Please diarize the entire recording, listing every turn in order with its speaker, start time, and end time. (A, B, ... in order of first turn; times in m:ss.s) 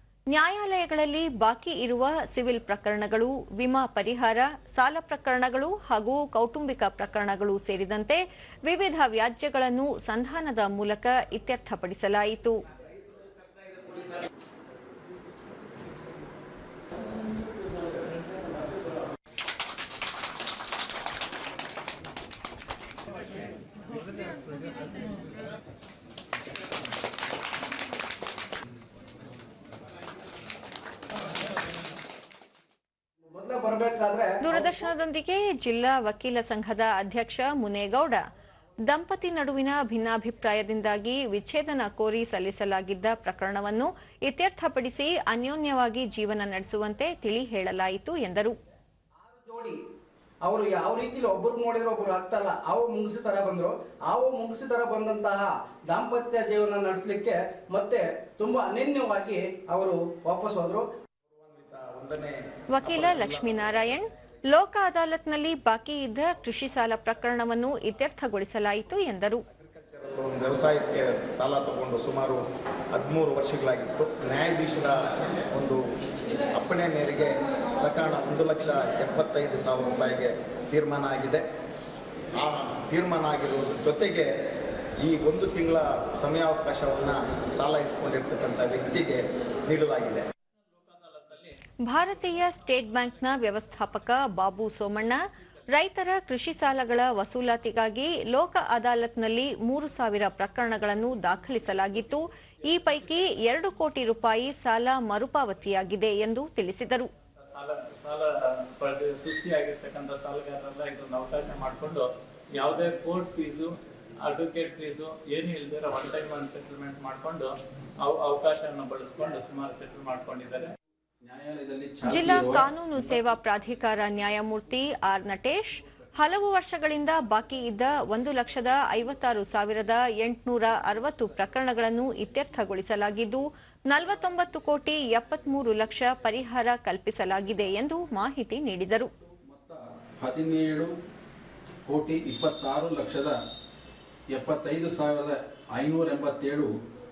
0:00.3-0:12.6 A
0:13.2-0:13.8 B
0:33.2-0:34.7 C
0:34.4-0:38.2 A
0:38.8-0:48.6 A
0:49.2-0:49.8 C
0:50.4-1:00.8 C
1:01.3-1:04.4 B
1:02.7-1:09.4 A
1:09.5-1:15.8 B
1:16.5-1:21.4 B
1:22.3-1:24.3 B
1:25.0-1:30.2 B
1:30.7-1:34.4 D
1:31.8-1:35.2 A
1:35.3-1:35.6 D
1:35.7-1:47.1 A
1:42.7-1:43.4 D
1:47.4-2:00.7 D
2:01.2-2:03.3 E
2:02.1-2:19.1 A
2:10.8-2:12.5 E
2:15.2-2:16.3 E
2:19.1-2:20.9 E
2:21.8-2:23.4 E
2:24.3-2:26.7 E